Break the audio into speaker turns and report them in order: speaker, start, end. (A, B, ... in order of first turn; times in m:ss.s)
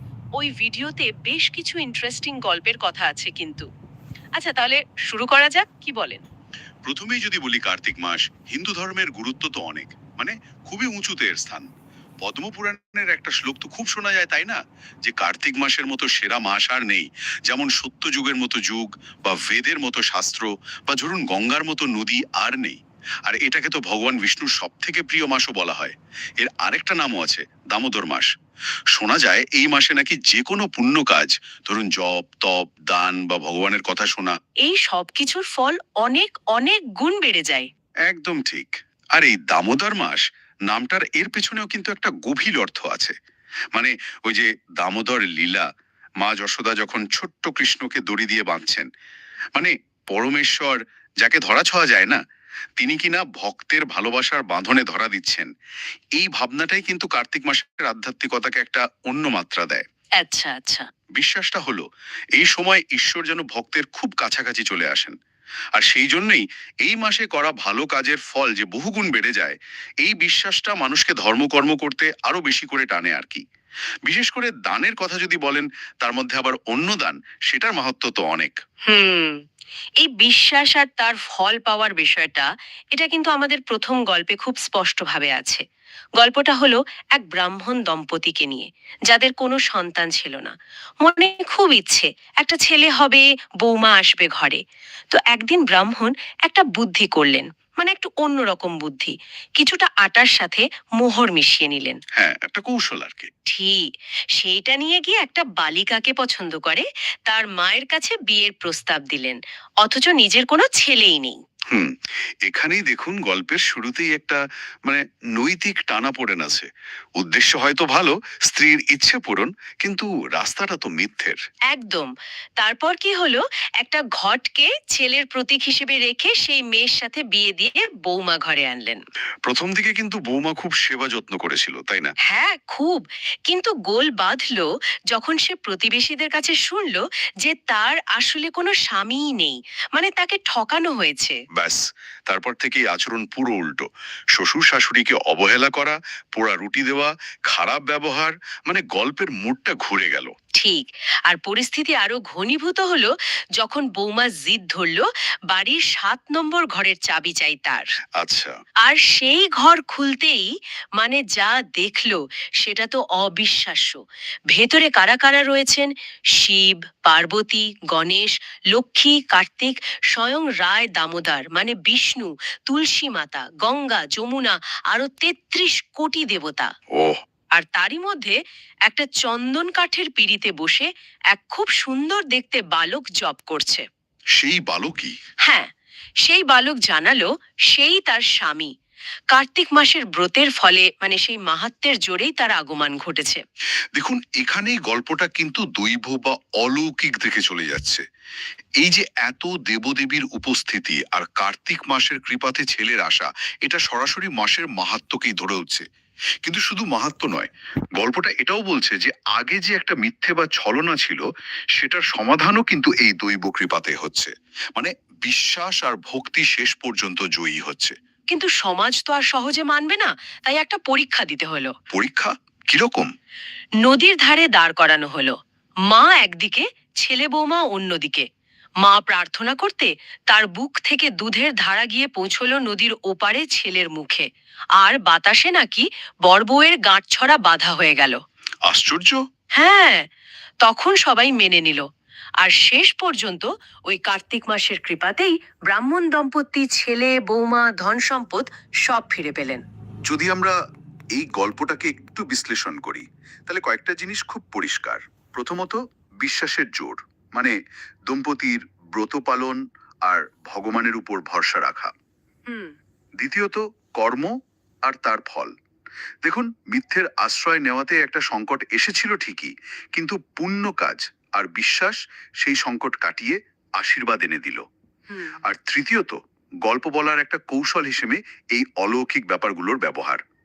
0:00.4-0:03.7 A
0:04.4-0:06.2 A
0:06.8-0:11.7 B
0:12.2-0:28.3 B
0:28.9-0:34.4 B
0:34.6-0:37.7 A
0:38.1-0:43.2 B
0:43.7-0:45.7 B
0:46.2-0:48.9 B
0:49.6-0:52.2 B
0:52.8-0:55.5 B
0:56.2-0:59.8 B
1:00.2-1:00.9 A
1:01.2-1:01.8 B
1:02.4-1:05.2 B
1:05.8-1:13.4 B
1:14.1-1:18.6 B
1:18.9-1:19.4 A
1:20.0-1:25.6 A
1:26.2-1:42.0 A
1:42.2-1:43.3 B
1:43.5-1:43.8 A
1:44.4-1:51.4 A
1:51.7-1:56.7 B
1:57.2-2:01.4 B
2:01.7-2:09.0 A
2:09.5-2:12.1 B
2:12.3-2:21.4 A
2:21.6-2:30.3 B
2:30.6-2:37.9 A
2:38.2-2:38.5 B
2:38.8-2:44.0 A
2:44.5-2:56.7 A
2:56.9-2:57.2 B
2:57.6-3:03.8 A
3:04.4-3:05.2 B
3:05.4-3:05.7 A
3:06.2-3:08.7 A
3:09.3-3:13.4 A
3:14.0-3:18.0 B
3:18.8-3:25.9 B
3:26.4-3:31.2 B
3:31.8-3:38.0 B
3:38.3-3:41.7 A
3:41.9-3:43.1 B
3:43.8-3:45.4 A
3:45.9-3:48.3 A
3:48.8-3:58.2 A
3:58.7-3:59.2 B
3:59.6-4:00.1 A
4:00.6-4:01.9 A
4:02.4-4:09.6 A
4:10.1-4:10.6 B
4:11.2-4:17.5 B
4:18.1-4:21.9 B
4:22.5-4:22.8 A
4:23.2-4:24.3 B
4:24.9-4:25.5 B
4:26.2-4:34.6 B
4:35.1-4:35.4 A
4:35.4-4:40.2 B